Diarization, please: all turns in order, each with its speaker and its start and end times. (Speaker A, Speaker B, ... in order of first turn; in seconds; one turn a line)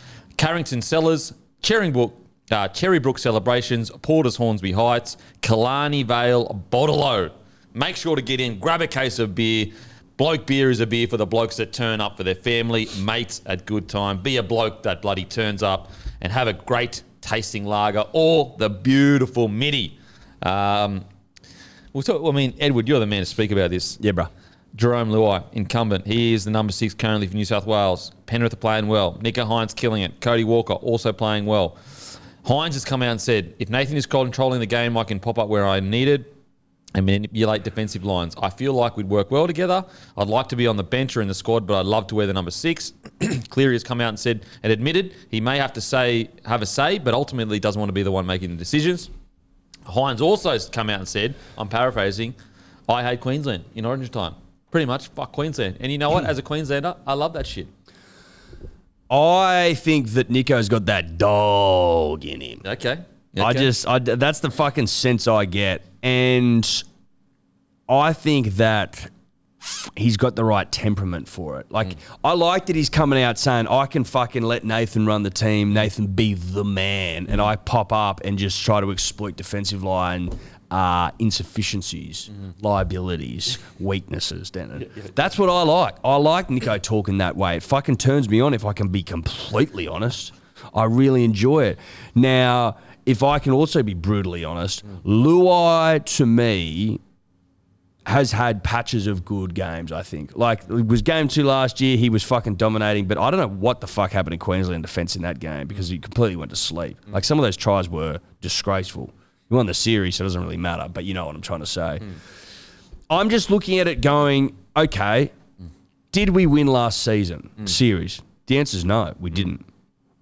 Speaker A: 0.4-21.1
Speaker A: 21.9-24.0
Speaker B: 24.0-24.3
Speaker A: 24.7-31.8
Speaker A: 32.4-36.3
Speaker A: 37.0-49.1
Speaker A: 49.9-52.4
Speaker A: 52.9-57.7
Speaker B: 59.1-62.6
Speaker A: 62.6-63.7
Speaker B: 63.4-66.8
Speaker B: 67.9-97.0
Speaker B: 98.0-112.1
Speaker B: 113.1-115.3
Speaker B: 116.1-119.6